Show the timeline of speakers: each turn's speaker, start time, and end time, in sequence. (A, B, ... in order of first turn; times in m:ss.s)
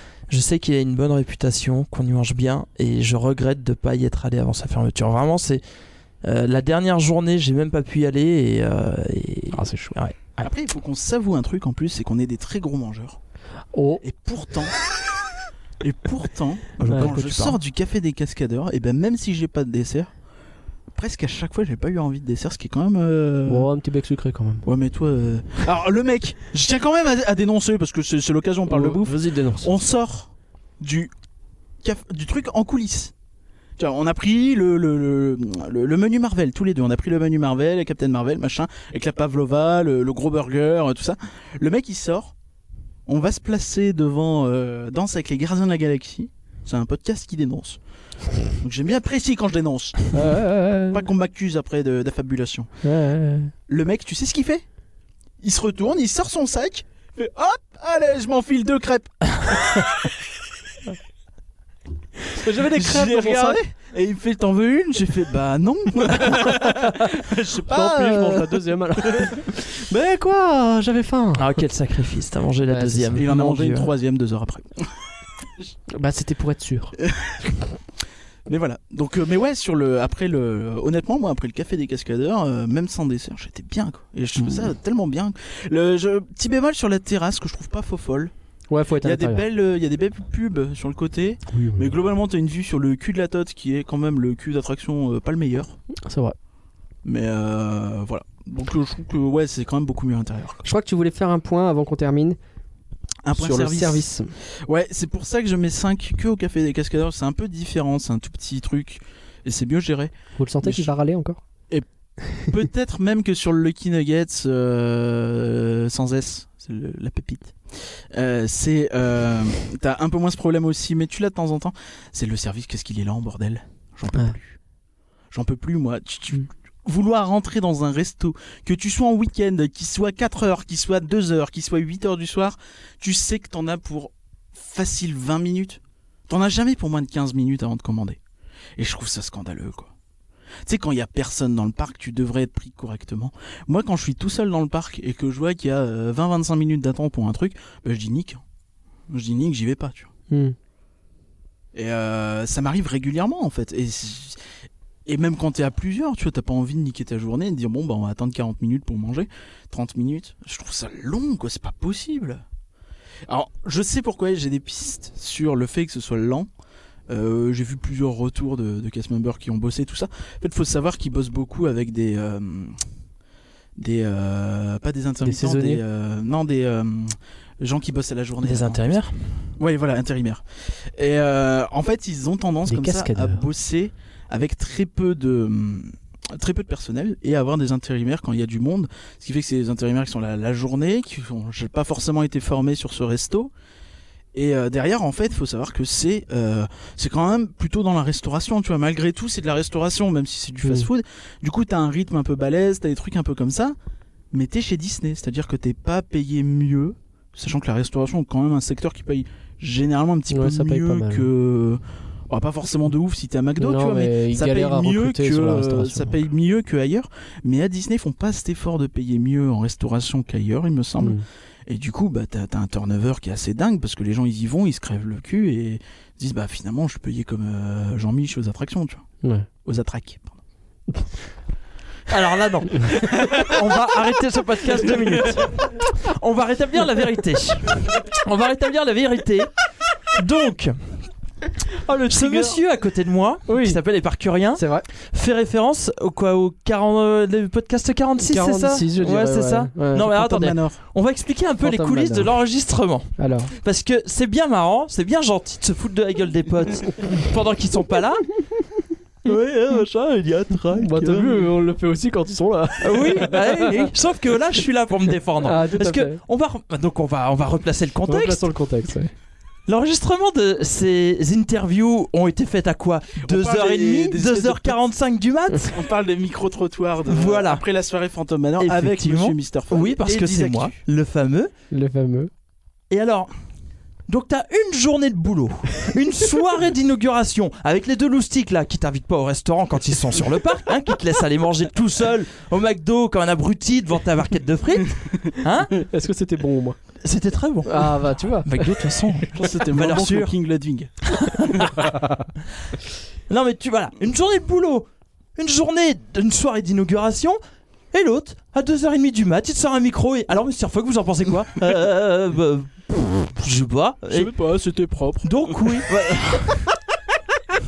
0:00.3-0:05.6 A
0:06.2-0:10.2 A
0:09.5-0:10.0 B
0:10.4-0:13.2 C
0:13.7-0:14.0 B
0:14.0-0:14.8 C
0:15.8-0:20.1 C
0:16.8-0:17.6 A
0:16.9-0:17.1 B
0:20.9-0:23.7 C
0:23.5-0:24.6 B
0:24.6-0:31.1 C
0:28.6-0:29.7 B
0:31.8-0:33.1 C
0:33.8-0:42.3 C
0:43.1-0:47.8 C
0:48.6-0:50.1 C
0:50.1-0:51.0 B
0:50.9-0:52.7 C
0:52.8-0:53.5 B
0:53.7-0:54.6 C
0:55.4-0:59.2 C
1:02.3-1:03.6 B
1:02.4-1:09.4 C
1:06.3-1:11.6 B
1:11.4-1:13.9 A
1:12.7-1:13.3 B
1:13.1-1:14.9 C
1:15.9-1:17.0 B
1:17.0-1:17.5 C
1:18.4-1:28.3 C
1:28.7-1:29.4 B
1:29.0-1:35.8 C
1:31.5-1:32.0 B
1:36.0-1:36.3 B
1:37.0-1:40.6 C
1:40.6-1:42.4 B
1:43.2-1:50.9 C
1:43.3-1:44.3 B
1:50.4-1:51.4 B
1:52.4-2:04.6 C
2:05.3-2:18.2 C
2:18.8-2:19.9 C
2:20.6-2:28.4 C
2:29.1-2:30.1 C
2:30.3-2:30.5 B
2:31.7-2:34.4 C
2:35.0-2:42.4 C
2:43.3-2:46.5 C
2:47.1-2:52.8 C
2:53.8-2:59.0 C
2:55.2-2:55.8 B
2:58.4-2:59.1 A
2:59.6-3:13.5 C
3:02.7-3:03.5 B
3:14.3-3:23.8 C
3:20.6-3:20.9 B
3:24.3-3:49.0 C
3:30.3-3:31.3 B
3:33.6-3:36.2 B
3:49.6-3:50.4 C
3:52.1-4:00.8 A
4:01.7-4:02.6 B
4:02.1-4:18.4 A
4:03.5-4:03.8 B
4:04.6-4:04.9 B
4:08.2-4:10.0 B
4:10.0-4:10.8 C
4:11.6-4:12.3 B
4:13.2-4:13.5 B
4:19.2-4:21.4 A
4:20.7-4:23.9 B
4:22.8-4:28.5 A
4:25.4-4:26.2 B
4:28.1-4:29.1 B
4:29.7-4:35.8 A
4:33.2-4:34.8 C
4:35.7-4:40.8 C
4:37.1-4:37.6 A
4:38.6-4:41.5 A
4:41.7-4:42.3 B
4:42.9-4:43.3 A
4:44.1-4:55.8 A
4:55.8-4:56.8 B
4:57.0-5:00.3 A
4:57.6-4:58.5 B
4:59.3-5:01.7 C
5:01.1-5:02.0 A
5:03.3-5:04.8 A
5:05.4-5:07.4 A
5:07.9-5:14.3 A
5:14.1-5:15.8 C
5:15.2-5:16.7 A